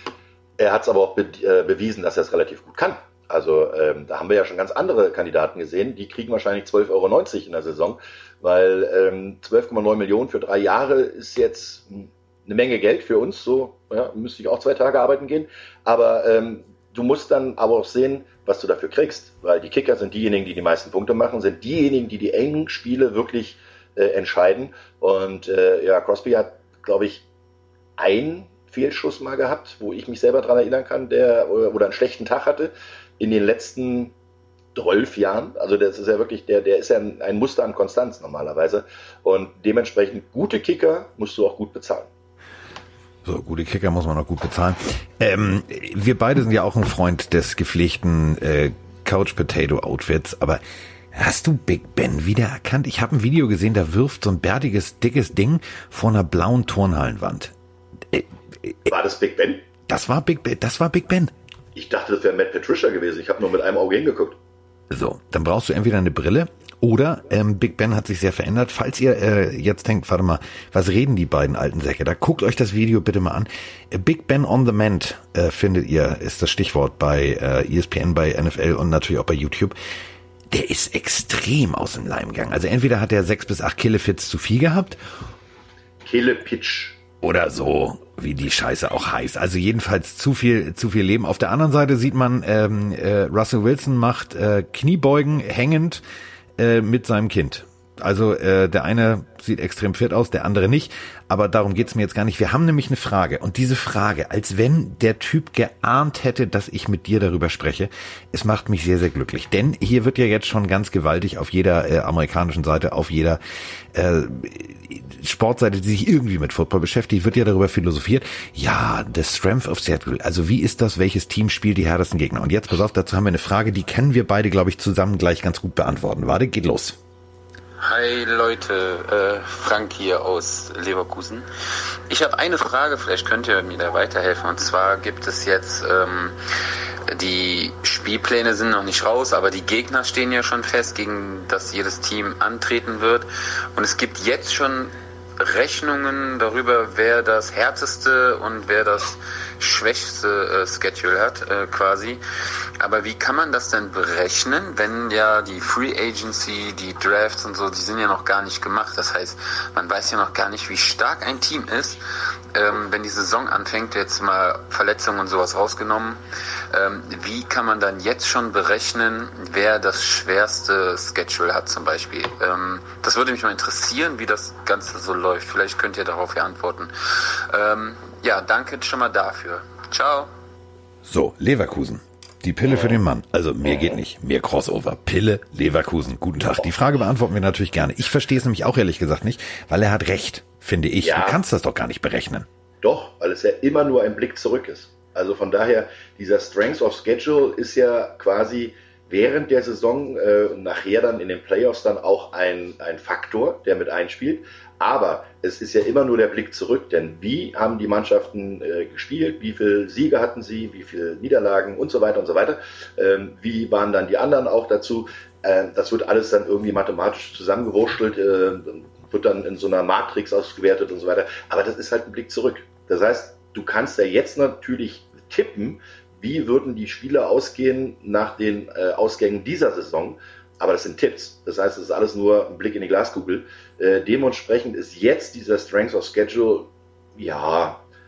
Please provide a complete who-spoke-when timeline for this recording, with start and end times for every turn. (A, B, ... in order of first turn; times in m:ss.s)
0:00.6-0:27.2 A
0:28.0-0:34.1 A
0:34.7-0:42.1 A
0:43.2-0:50.6 B
0:51.1-0:57.5 B
0:58.1-0:58.7 B
0:58.8-0:59.6 A
0:59.9-1:01.3 B
1:01.7-1:04.4 A
1:04.9-1:19.7 B
1:20.5-1:25.0 B
1:26.0-1:27.0 A
1:27.2-1:36.0 B
1:36.6-1:53.4 B
1:53.9-2:07.0 B
2:07.8-2:11.4 C
2:12.1-2:16.4 C
2:17.1-2:32.2 C
2:32.8-2:42.0 C
2:42.5-2:46.2 C
2:46.7-3:00.3 C
3:01.0-3:12.5 B
3:11.0-3:11.4 A
3:12.8-3:57.8 A